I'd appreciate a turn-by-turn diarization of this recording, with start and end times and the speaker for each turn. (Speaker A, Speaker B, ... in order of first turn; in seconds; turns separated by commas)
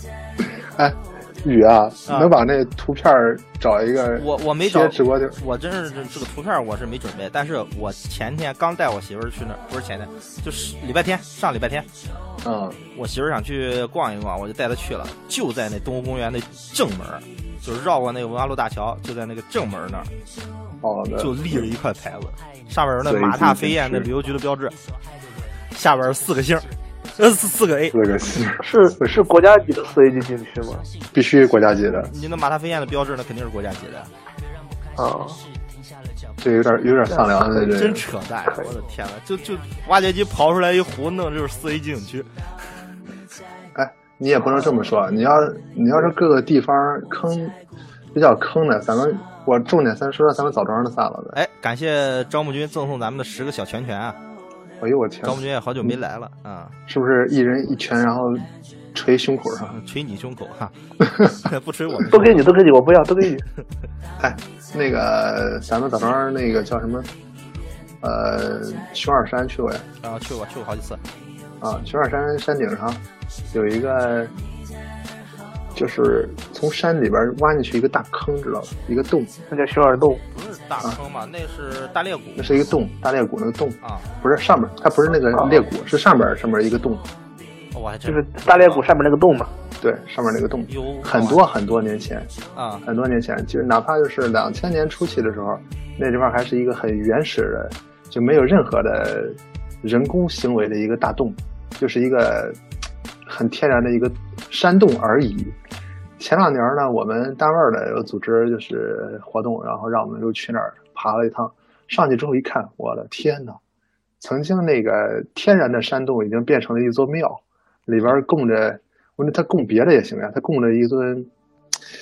Speaker A: 0.4-5.4, Speaker B: 2.0-2.3, Speaker B: 4.2-11.9, Speaker A: 12.4-12.8, Speaker B: 12.9-20.1, Speaker A: 20.8-21.7, Speaker B: 21.2-24.8, Speaker A: 23.0-24.1, Speaker B: 25.7-28.0, Speaker A: 27.9-28.6, Speaker C: 28.6-30.9, Speaker A: 31.1-32.1, Speaker B: 32.0-34.1, Speaker C: 35.0-35.4, Speaker A: 36.4-38.0, Speaker C: 37.1-37.8, Speaker B: 37.7-42.3, Speaker A: 43.7-47.5, Speaker A: 48.1-51.4, Speaker B: 51.3-54.2, Speaker A: 54.8-55.9, Speaker B: 55.2-56.8, Speaker A: 56.9-59.7, Speaker B: 59.7-62.4, Speaker C: 62.1-63.4, Speaker A: 64.2-67.1, Speaker A: 68.0-69.8, Speaker B: 70.0-71.0, Speaker A: 71.6-74.3, Speaker A: 75.7-79.3, Speaker C: 79.5-80.2, Speaker B: 80.3-82.7, Speaker A: 82.4-87.1, Speaker B: 83.8-84.1, Speaker C: 85.3-85.6, Speaker B: 87.7-88.8, Speaker C: 88.0-89.5, Speaker A: 89.8-92.3, Speaker B: 90.7-91.4, Speaker B: 92.5-92.8, Speaker A: 92.8-102.6, Speaker A: 103.2-105.5, Speaker A: 106.2-113.6, Speaker A: 114.2-121.3